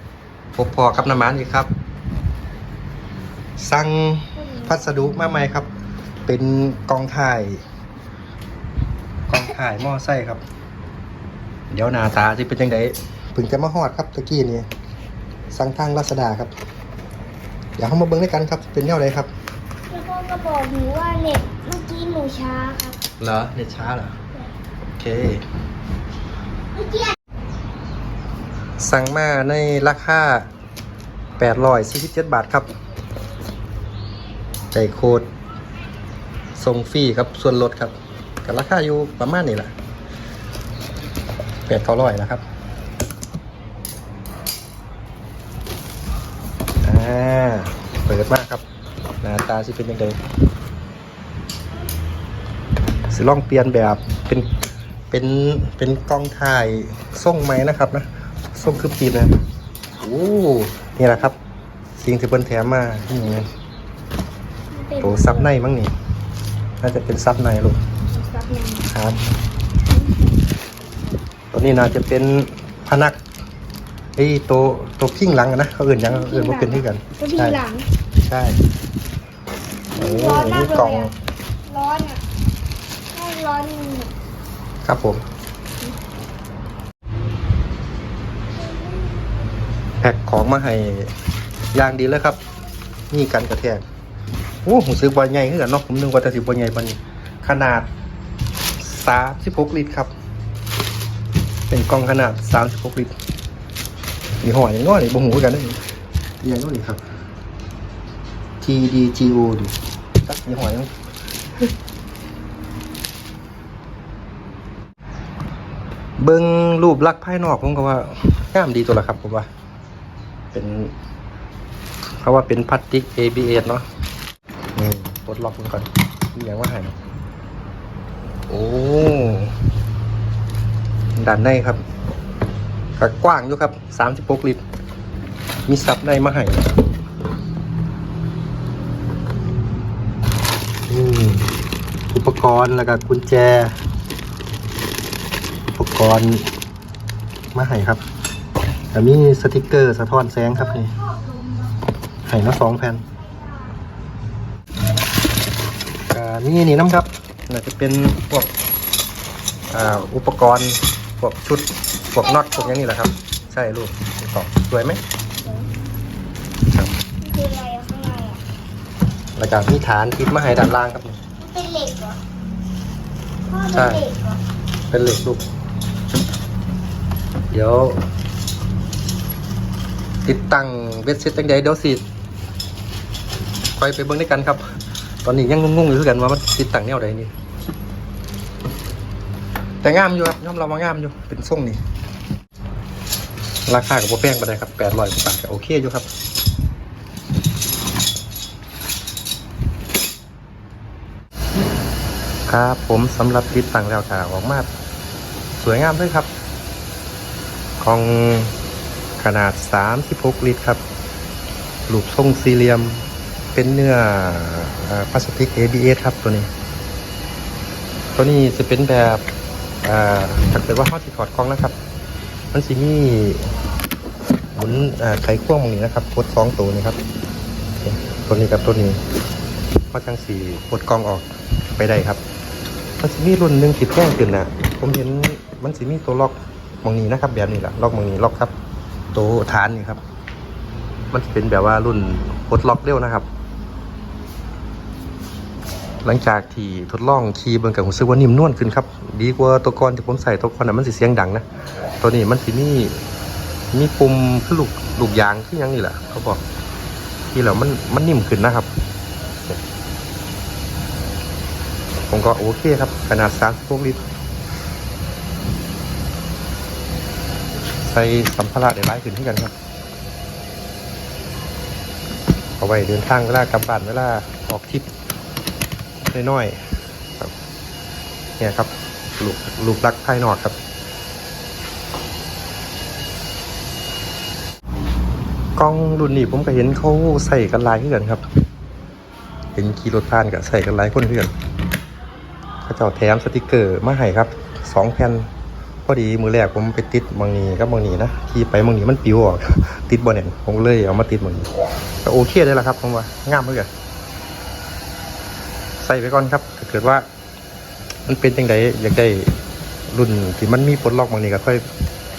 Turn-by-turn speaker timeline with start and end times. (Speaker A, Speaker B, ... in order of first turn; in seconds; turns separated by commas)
Speaker A: 0.6-1.7, Speaker A: 3.6-5.7, Speaker B: 4.4-4.7, Speaker A: 6.3-7.6, Speaker A: 9.3-10.4, Speaker A: 11.7-14.7, Speaker A: 15.5-16.5, Speaker A: 17.8-19.3, Speaker B: 19.9-23.0, Speaker A: 23.2-24.2, Speaker A: 24.9-25.4, Speaker A: 28.8-30.5, Speaker A: 31.4-32.7, Speaker A: 34.7-35.3, Speaker A: 36.6-39.7, Speaker A: 41.7-42.4, Speaker A: 46.8-48.6, Speaker A: 49.2-50.2, Speaker A: 53.1-54.5, Speaker A: 55.1-59.4, Speaker A: 60.0-61.4, Speaker A: 62.0-63.5, Speaker B: 64.7-65.5, Speaker A: 65.0-65.9, Speaker A: 66.8-67.8, Speaker B: 68.2-68.9, Speaker A: 68.9-69.2, Speaker B: 69.9-70.3, Speaker A: 71.5-73.2, Speaker A: 74.2-77.6, Speaker B: 76.0-77.9, Speaker A: 78.2-78.6, Speaker B: 79.9-81.1, Speaker A: 80.0-81.1, Speaker B: 81.7-82.2, Speaker B: 83.1-84.1, Speaker A: 84.8-85.2, Speaker B: 88.6-89.1, Speaker A: 90.0-91.1, Speaker A: 91.7-92.4, Speaker A: 93.1-93.8, Speaker A: 94.7-97.9, Speaker A: 98.8-100.1, Speaker A: 101.7-103.1, Speaker A: 104.4-105.8, Speaker A: 106.4-107.0, Speaker A: 108.6-109.7, Speaker A: 110.2-110.9, Speaker A: 116.2-119.5, Speaker A: 120.5-120.9, Speaker A: 122.2-123.8, Speaker A: 124.8-127.0, Speaker A: 128.5-129.5, Speaker A: 131.2-131.8, Speaker A: 133.0-134.6, Speaker A: 135.7-136.8, Speaker A: 140.9-141.5, Speaker A: 142.1-143.8, Speaker A: 145.7-146.5, Speaker A: 147.5-148.0, Speaker A: 148.9-150.9, Speaker A: 152.3-153.1, Speaker A: 156.1-158.5, Speaker A: 159.7-165.0, Speaker B: 162.2-162.8, Speaker B: 165.4-165.7, Speaker B: 167.2-168.4, Speaker A: 169.4-171.2, Speaker B: 171.4-172.2, Speaker B: 173.5-174.4, Speaker A: 173.7-174.0, Speaker A: 174.9-175.4, Speaker A: 177.5-178.0, Speaker A: 180.2-182.0, Speaker A: 183.8-184.6, Speaker A: 185.2-187.3, Speaker A: 189.8-191.8, Speaker A: 193.7-196.1, Speaker A: 202.5-204.7, Speaker A: 205.6-206.3, Speaker A: 207.8-208.5, Speaker A: 209.2-210.8, Speaker A: 211.9-216.5, Speaker A: 218.2-219.2, Speaker A: 219.8-221.8, Speaker A: 222.5-223.5, Speaker A: 224.6-227.0, Speaker A: 227.8-229.0, Speaker A: 229.9-232.2, Speaker A: 233.0-238.5, Speaker A: 239.1-240.0, Speaker A: 241.1-243.3, Speaker A: 246.0-251.4, Speaker A: 252.0-253.0, Speaker A: 253.7-256.4, Speaker A: 257.3-258.7, Speaker A: 262.1-264.0, Speaker A: 267.8-269.5, Speaker A: 272.6-274.9, Speaker A: 276.1-276.6, Speaker A: 278.4-280.6, Speaker A: 285.6-288.2, Speaker A: 289.6-291.3, Speaker A: 292.6-295.3, Speaker A: 295.9-301.5, Speaker A: 302.0-303.7, Speaker A: 305.8-307.1, Speaker A: 308.1-309.4, Speaker A: 309.9-311.6